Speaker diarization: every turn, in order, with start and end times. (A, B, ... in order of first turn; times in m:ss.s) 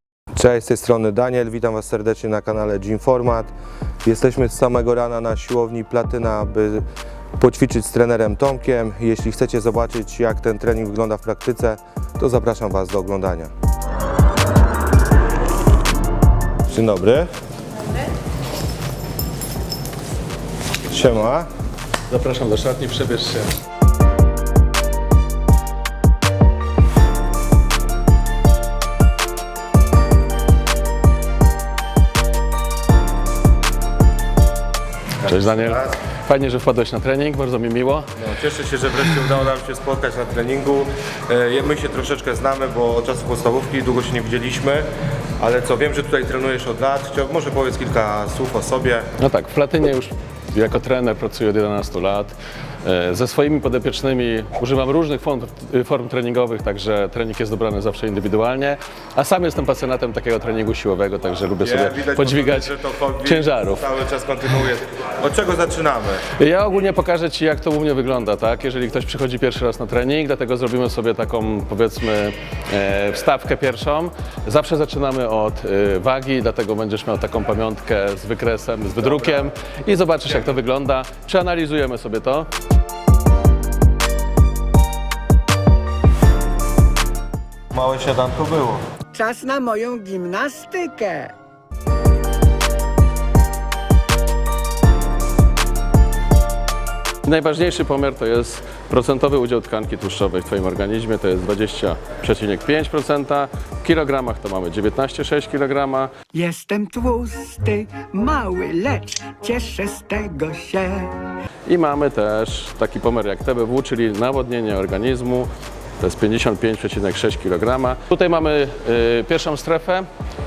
0:00.4-0:03.5 A
0:04.0-0:06.8 A
0:07.4-0:13.5 A
0:16.7-0:17.3 A
0:20.9-0:21.5 A
0:22.1-0:23.5 B
0:35.2-0:38.1 B
0:35.3-0:36.0 A
0:38.2-0:44.9 A
0:45.4-0:49.1 A
0:49.2-1:03.9 B
1:01.6-1:06.2 A
1:06.4-1:22.5 B
1:19.0-1:19.5 A
1:27.7-1:28.8 A
1:29.1-1:31.3 C
1:37.2-1:46.1 B
1:46.3-1:51.2 C
1:51.7-1:55.5 B
1:56.0-2:00.1 B